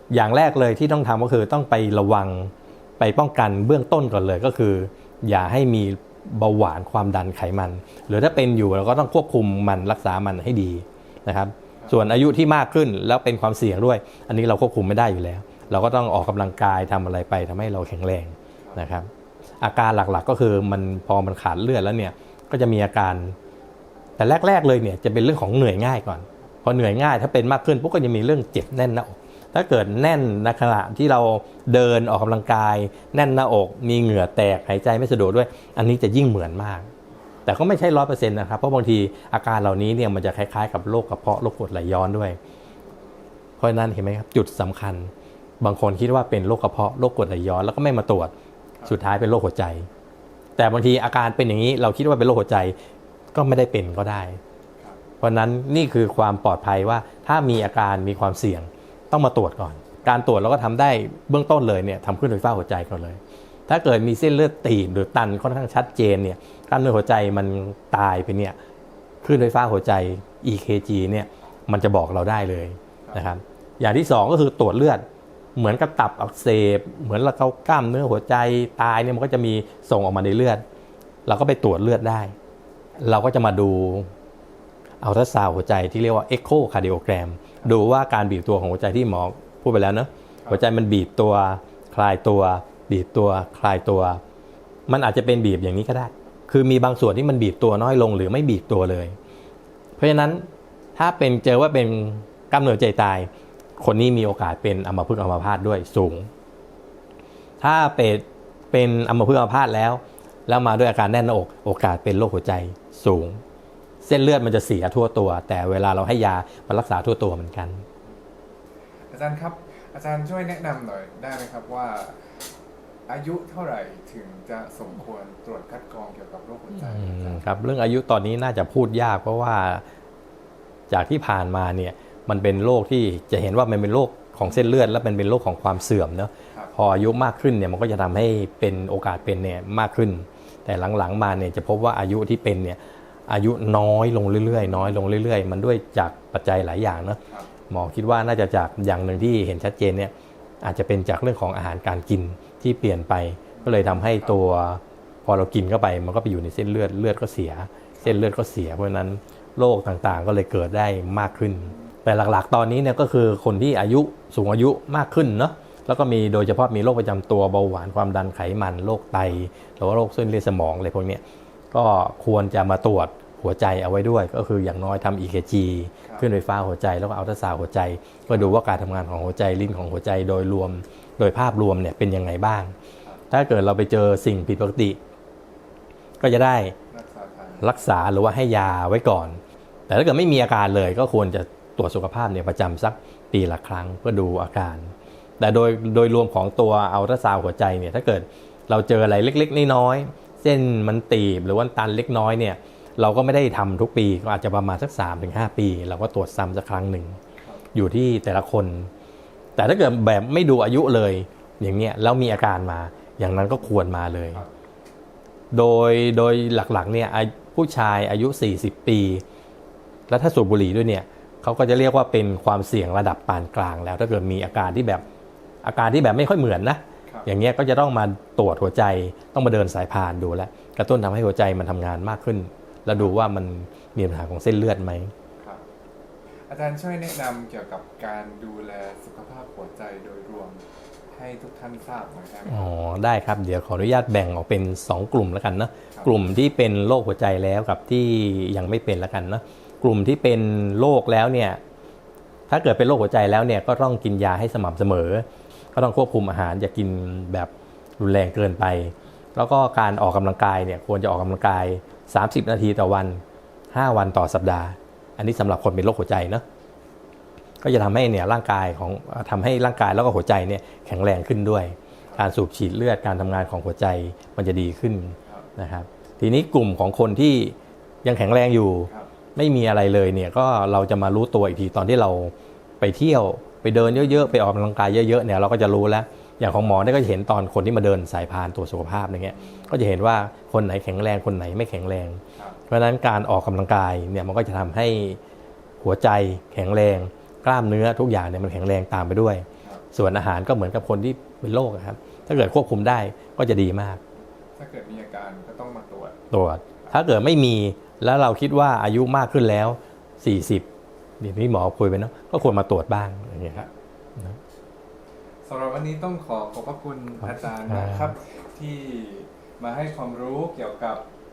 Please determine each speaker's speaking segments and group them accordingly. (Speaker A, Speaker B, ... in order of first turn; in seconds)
Speaker A: 0.1-19.1, 19.6-23.4, 24.2-36.9, 37.5-42.4, 43.6-48.3, 48.9-49.9, 50.6-52.8, 53.3-54.4, 55.2-68.6, 69.2-75.0, 75.6-80.6, 81.3-82.3, 83.0-84.1, 85.0-94.2, 94.9-99.2, 100.0-106.3, 107.6-113.4, 114.0-117.8, 126.8-129.8, 130.9-182.7, 183.3-185.0, 186.2-186.8, 187.6-207.2, 207.7-208.9, 209.6-214.4, 215.5-219.2, 220.1-225.0, 225.6-235.1, 242.5-251.6, 252.5-263.2, 263.7-266.4, 267.6-295.2, 295.8-304.0, 306.3-310.7, 311.2-314.4, 317.2-318.1
Speaker B: 42.6-43.3, 119.1-122.2, 123.1-127.5, 144.6-144.9, 147.3-147.5, 153.6-154.4, 178.3-178.6, 186.9-187.7, 236.5-242.7, 283.8-284.2, 289.3-289.8, 304.6-306.2, 315.5-321.0